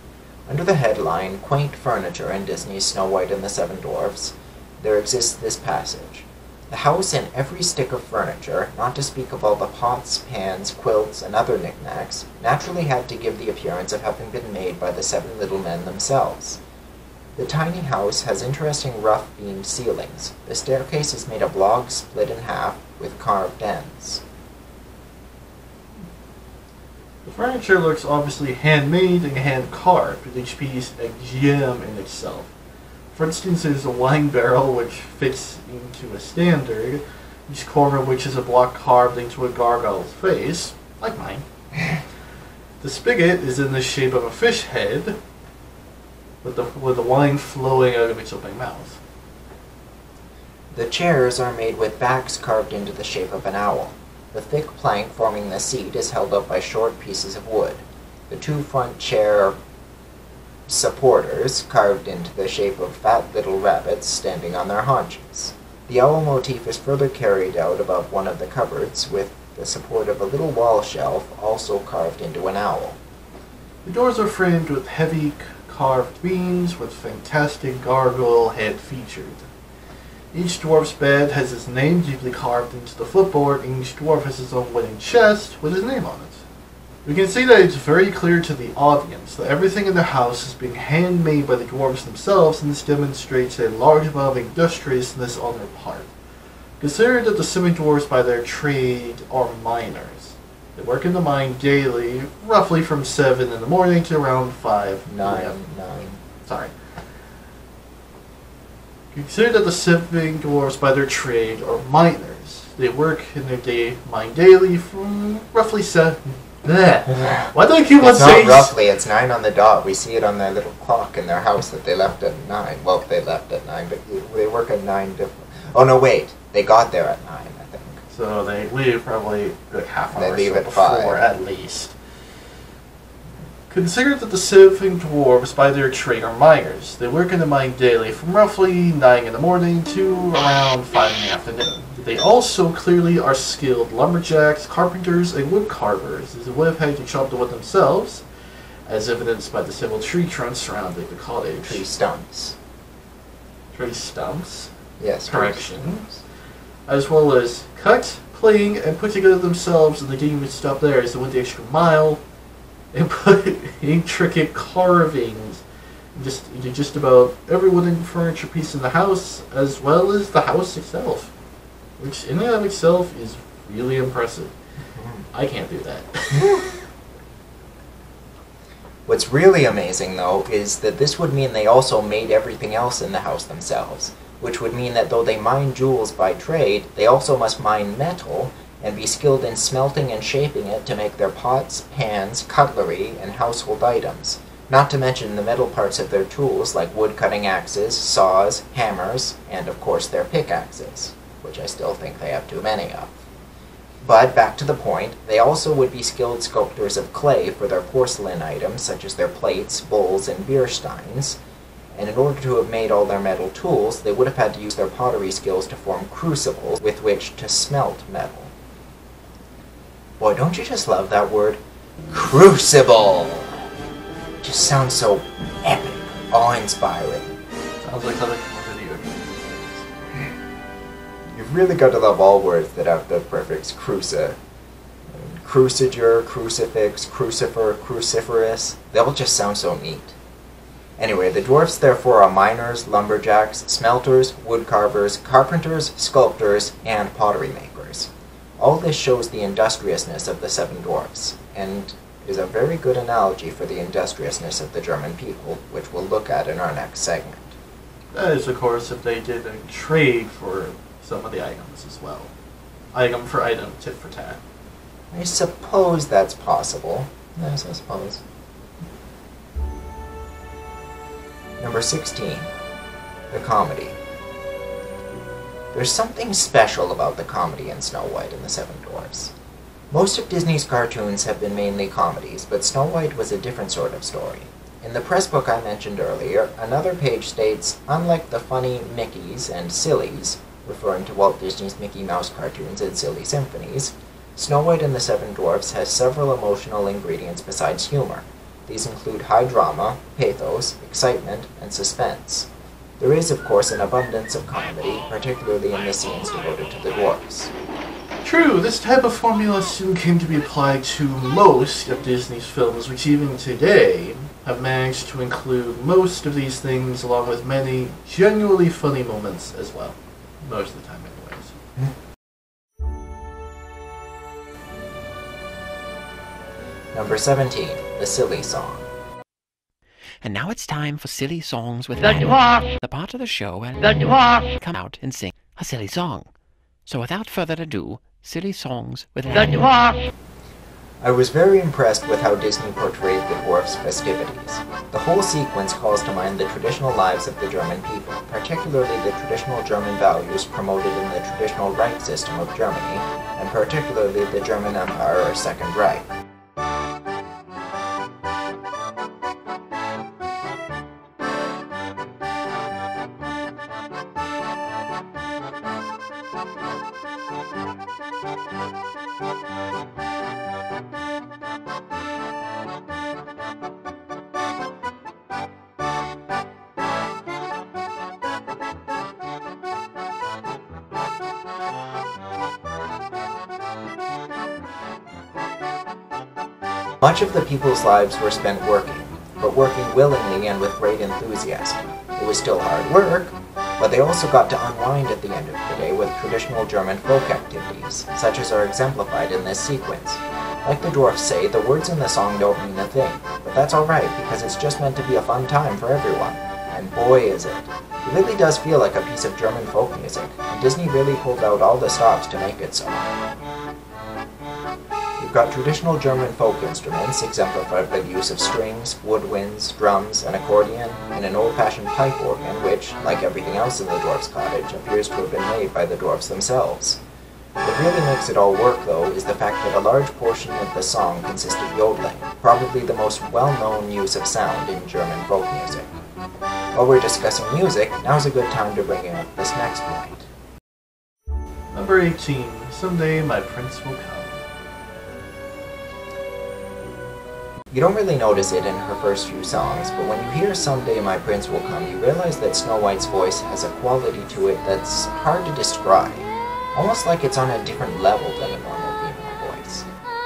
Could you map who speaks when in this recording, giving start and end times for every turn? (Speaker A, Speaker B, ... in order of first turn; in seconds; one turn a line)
Speaker A: 0.5-16.6
Speaker A: 17.4-24.2
Speaker B: 27.2-32.5
Speaker B: 33.1-41.4
Speaker B: 42.8-45.2
Speaker B: 46.4-49.0
Speaker A: 50.7-59.6
Speaker A: 60.7-73.0
Speaker B: 73.8-79.5
Speaker B: 80.3-86.4
Speaker B: 87.0-96.1
Speaker B: 96.8-105.5
Speaker A: 105.1-106.2
Speaker B: 106.4-106.7
Speaker B: 109.1-118.7
Speaker A: 117.1-128.0
Speaker B: 128.1-131.9
Speaker A: 130.1-131.2
Speaker B: 133.7-148.2
Speaker B: 148.8-151.8
Speaker A: 151.7-152.6
Speaker B: 153.7-154.7
Speaker A: 155.0-156.2
Speaker B: 155.2-156.0
Speaker B: 156.9-162.2
Speaker B: 162.9-165.6
Speaker B: 166.1-171.3
Speaker B: 172.0-174.5
Speaker A: 174.9-175.2
Speaker B: 175.3-176.7
Speaker A: 176.3-176.6
Speaker A: 179.1-203.2
Speaker A: 204.0-211.4
Speaker A: 211.9-218.5
Speaker A: 220.2-223.6
Speaker A: 224.4-227.3
Speaker B: 227.8-229.9
Speaker A: 231.3-234.4
Speaker A: 235.1-240.2
Speaker A: 241.0-257.6
Speaker B: 258.1-262.3
Speaker B: 262.9-264.4
Speaker A: 265.1-268.2
Speaker A: 271.6-272.5
Speaker A: 273.3-274.0
Speaker A: 275.7-279.3
Speaker A: 279.9-307.5
Speaker B: 308.2-321.6
Speaker A: 326.9-328.9
Speaker C: 330.2-336.3
Speaker D: 332.0-332.7
Speaker D: 333.8-334.4
Speaker C: 336.9-339.8
Speaker D: 339.3-340.0
Speaker A: 341.0-356.1
Speaker A: 387.0-413.2
Speaker A: 415.2-427.0
Speaker A: 427.6-436.0
Speaker A: 436.7-440.3
Speaker B: 441.7-444.4
Speaker A: 447.7-459.9